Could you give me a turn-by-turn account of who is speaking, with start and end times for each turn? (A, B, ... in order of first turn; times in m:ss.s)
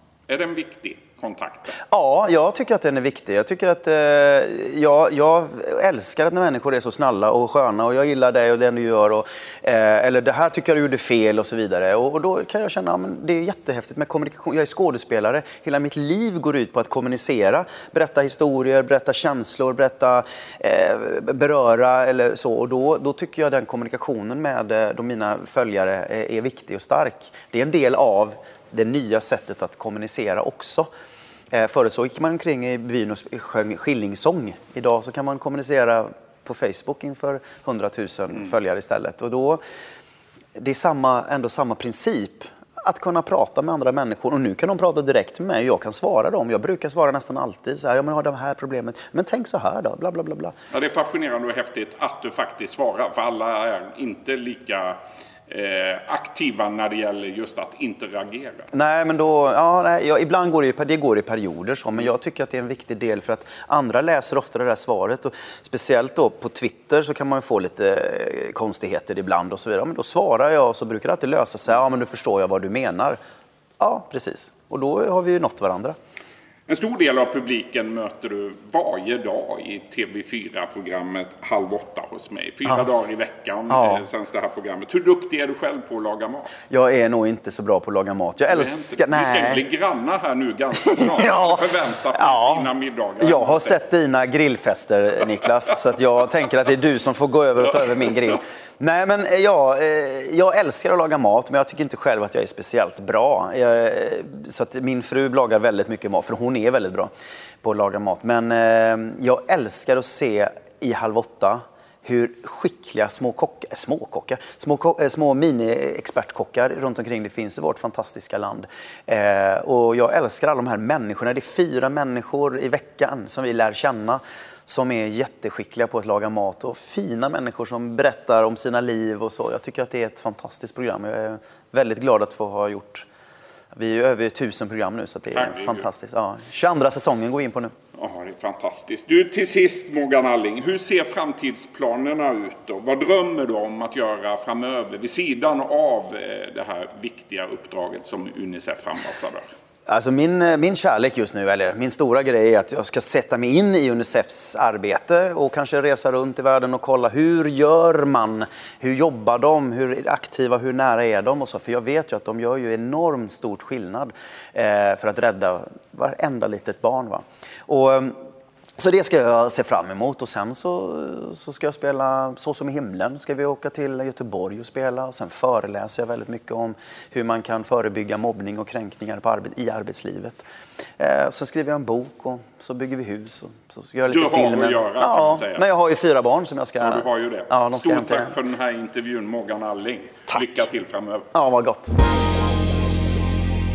0:00.3-0:01.8 A
0:01.9-0:30.9 B
0:31.5-0:39.6 B
0:40.6-0:50.6 B
0:50.7-0:58.7 A
0:58.7-1:13.2 B
1:13.8-1:16.0 B
1:16.7-1:26.6 A
1:23.7-1:24.1 B
1:26.7-1:29.6 B
1:28.5-1:33.8 A
1:30.9-1:32.7 B
1:33.2-1:47.1 B
1:47.6-2:13.1 B
2:13.7-2:17.7 B
2:15.3-2:15.9 A
2:17.9-2:29.5 A
2:29.9-2:48.2 B
2:48.8-3:00.4 B
3:01.0-3:08.3 B
3:04.1-3:05.6 A
3:06.8-3:11.3 A
3:11.3-3:11.9 B